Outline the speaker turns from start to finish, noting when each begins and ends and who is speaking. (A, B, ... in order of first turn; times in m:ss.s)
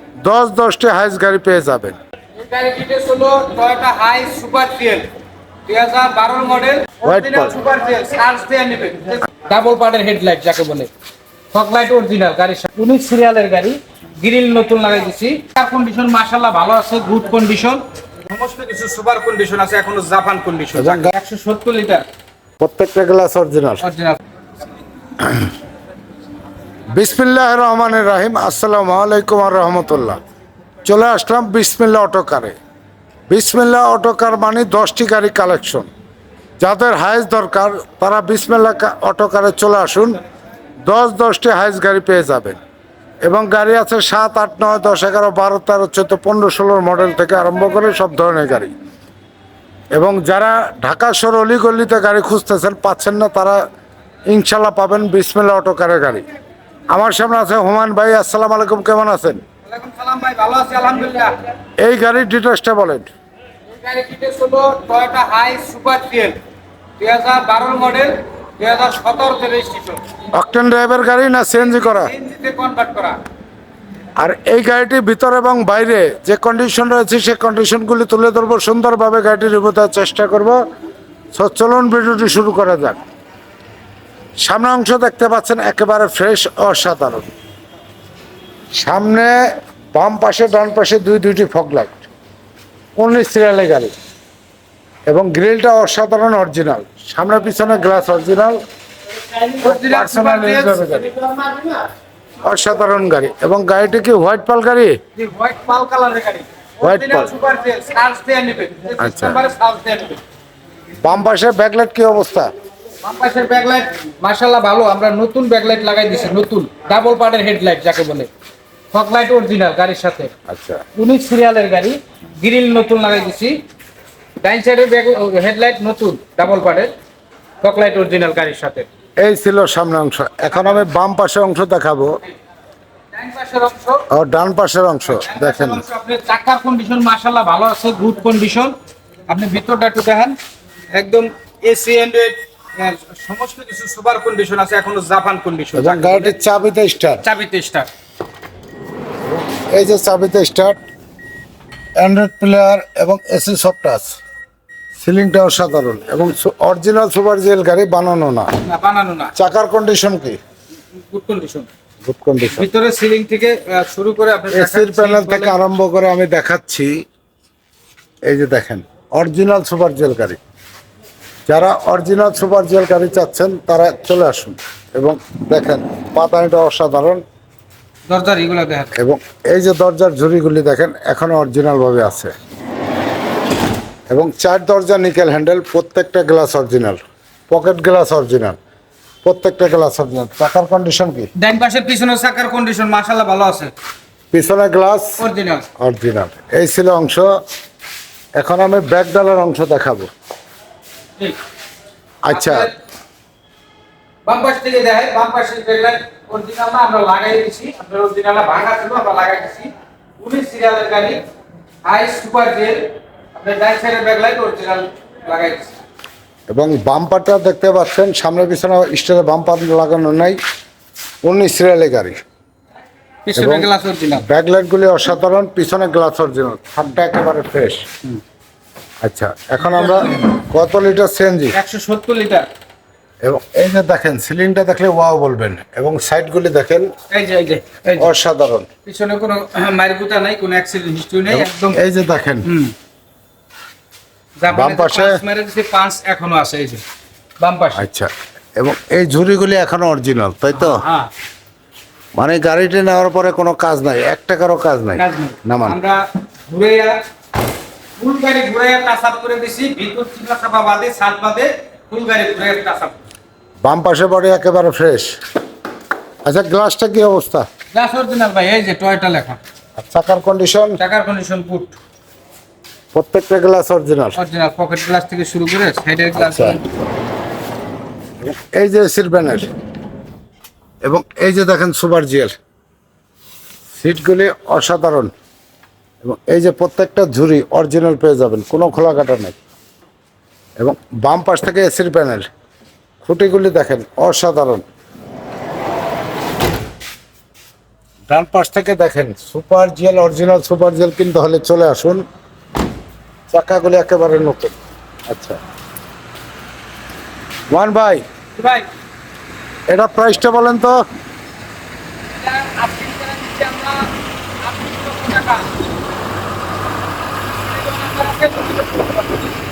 0:00.2-0:02.0 A
0:02.4-0:05.1 B
0:05.7-0:10.9 B
0:07.0-0:07.6 A
0:11.5-0:22.0 B
0:20.8-0:21.1 A
0:22.6-0:23.8 A
0:23.8-0:24.2 B
0:25.2-0:25.5 A
0:26.9-0:30.2 A
0:30.8-0:32.6 A
0:33.3-0:35.9 A
0:36.6-0:40.2 A
0:40.8-0:42.6 A
0:43.2-0:48.7 A
0:49.9-0:53.6 A
0:54.3-0:56.2 A
0:56.9-0:59.4 A
0:59.6-1:01.3 B
1:01.8-1:03.1 A
1:03.7-1:06.4 B
1:07.0-1:10.1 B
1:10.3-1:12.1 A
1:11.6-1:13.2 B
1:14.2-1:20.6 A
1:21.3-1:23.0 A
1:24.4-1:27.3 A
1:28.8-1:29.4 A
1:29.9-1:32.1 A
1:33.0-1:33.9 A
1:35.1-1:38.6 A
1:39.6-1:41.5 B
1:39.6-1:41.1 A
1:42.4-1:45.0 A
1:45.2-1:50.2 B
1:46.8-1:47.3 A
1:49.0-1:49.4 A
1:51.0-1:52.5 A
1:53.0-1:58.3 B
1:58.9-2:00.3 B
2:00.5-2:00.8 A
2:01.0-2:03.6 B
2:04.4-2:06.9 B
2:07.6-2:08.9 B
2:09.2-2:12.2 A
2:10.5-2:10.8 B
2:13.1-2:14.0 B
2:14.1-2:15.8 A
2:15.0-2:18.8 B
2:19.3-2:20.4 B
2:20.9-2:26.3 B
2:25.7-2:27.2 A
2:27.2-2:27.9 B
2:29.3-2:30.8 A
2:32.0-2:34.2 A
2:35.0-2:38.5 A
2:38.6-2:39.3 B
2:39.4-2:40.4 A
2:40.9-2:41.7 B
2:42.0-2:42.7 A
2:42.4-2:45.6 B
2:44.5-2:46.9 A
2:48.3-2:50.4 A
2:51.5-2:57.2 A
2:58.1-2:58.9 B
2:59.0-3:02.3 A
3:04.1-3:08.6 A
3:09.2-3:11.3 A
3:11.4-3:13.7 B
3:14.3-3:15.2 A
3:15.2-3:15.6 B
3:15.8-3:17.3 A
3:18.4-3:20.1 A
3:22.2-3:22.7 A
3:22.3-3:22.7 B
3:24.2-3:31.2 B
3:31.8-3:35.8 B
3:36.5-3:40.4 A
3:41.2-3:42.2 A
3:43.2-3:44.2 B
3:43.3-3:47.8 A
3:49.0-3:51.6 A
3:49.6-3:50.3 B
3:51.5-3:52.4 B
3:53.2-3:56.9 A
3:57.1-3:58.1 B
3:58.0-3:58.7 A
3:58.8-4:01.8 B
4:01.3-4:02.5 A
4:02.4-4:02.7 B
4:04.4-4:06.8 B
4:04.5-4:05.2 A
4:07.4-4:07.9 B
4:07.7-4:10.8 A
4:10.5-4:11.1 B
4:12.2-4:15.8 A
4:15.0-4:17.0 B
4:18.0-4:23.0 B
4:23.6-4:25.1 A
4:26.2-4:27.5 A
4:27.7-4:29.4 B
4:29.8-4:30.8 A
4:30.8-4:31.8 B
4:32.9-4:34.2 A
4:34.2-4:36.6 B
4:36.1-4:36.6 A
4:38.2-4:39.5 A
4:40.8-4:42.3 A
4:43.7-4:45.1 A
4:46.0-4:49.4 A
4:50.6-4:52.3 A
4:53.0-4:54.6 A
4:58.1-5:02.0 A
5:03.3-5:04.6 A
5:05.1-5:05.4 A
5:07.5-5:08.0 A
5:08.4-5:08.7 B
5:09.7-5:10.8 A
5:12.1-5:15.5 B
5:17.3-5:19.3 B